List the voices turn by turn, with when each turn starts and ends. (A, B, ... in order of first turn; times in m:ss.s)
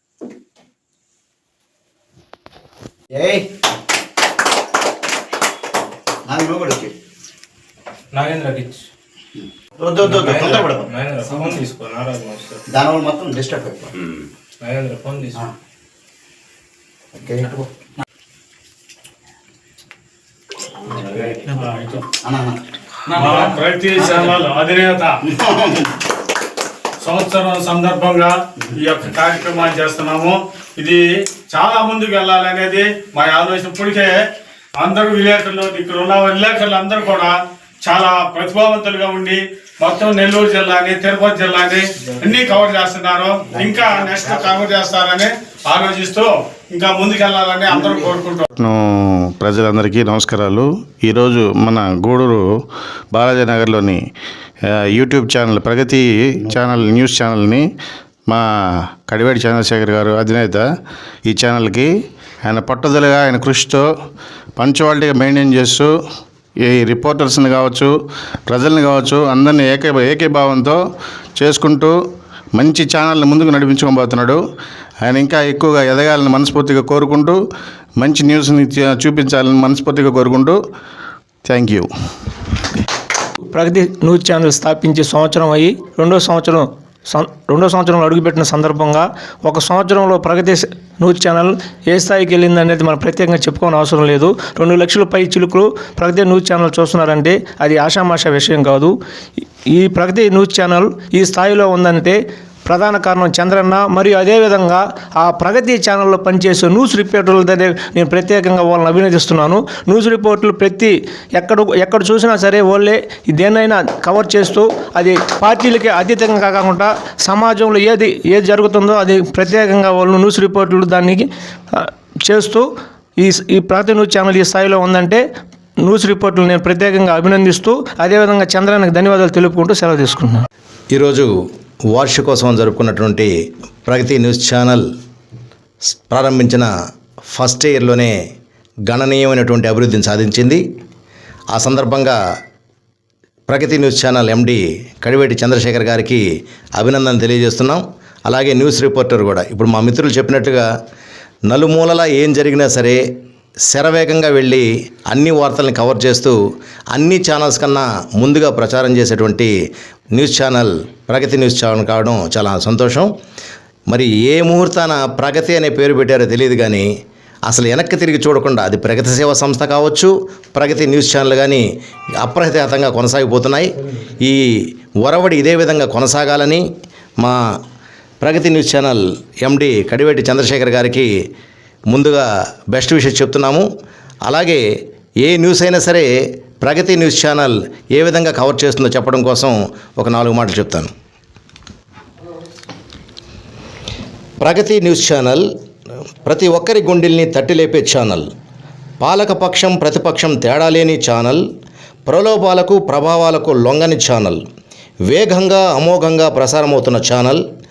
0:03.1-0:03.4 A
0:06.3-0:06.9 A
0:08.1-0:08.8 B
0:09.8-0:11.5 A
0:10.0-0:12.6 B
0:12.7-0:13.9 A
0:14.6-0:15.4 B
0:17.2-0:17.5 A
0:21.1-0:21.6 B
0:21.6-0:22.0 C
0:22.2-0:22.6 A
0:23.2-0:25.1 C
0:25.4-0:25.8 A
0:27.0-0:31.0 C
0:31.5-0:34.2 C
0:34.8-0:48.5 C
0:43.9-0:44.3 A
0:48.6-0:52.5 D
0:53.1-0:54.0 D
0:54.6-0:57.7 D
0:58.3-1:00.7 D
1:01.3-1:01.9 D
1:02.4-1:03.9 D
1:04.6-1:05.9 D
1:06.6-1:07.9 D
1:08.5-1:10.8 D
1:11.4-1:12.0 D
1:12.5-1:14.4 D
1:15.0-1:17.4 D
1:18.0-1:20.6 D
1:21.4-1:21.9 D
1:23.5-1:39.0 E
1:39.7-2:05.2 E
2:05.8-2:10.5 E
2:10.9-2:11.3 F
2:11.9-2:13.3 F
2:13.8-2:14.8 F
2:16.0-2:16.7 F
2:17.3-2:18.1 F
2:18.9-2:20.6 F
2:21.5-2:22.2 F
2:23.5-2:26.2 F
2:26.8-2:30.6 F
2:31.5-2:33.0 F
2:33.7-2:36.4 F
2:36.9-2:39.5 F
2:40.1-2:43.1 F
2:43.9-2:46.9 F
2:47.5-2:51.6 F
2:52.2-2:54.4 F
2:55.0-2:56.6 F
2:58.2-3:01.1 F
3:01.9-3:03.6 F
3:04.2-3:04.6 F
3:05.2-3:06.1 F
3:06.6-3:10.9 F
3:14.4-3:15.4 F
3:16.2-3:18.3 F
3:19.0-3:21.4 F
3:22.1-3:24.4 F
3:25.1-3:27.4 F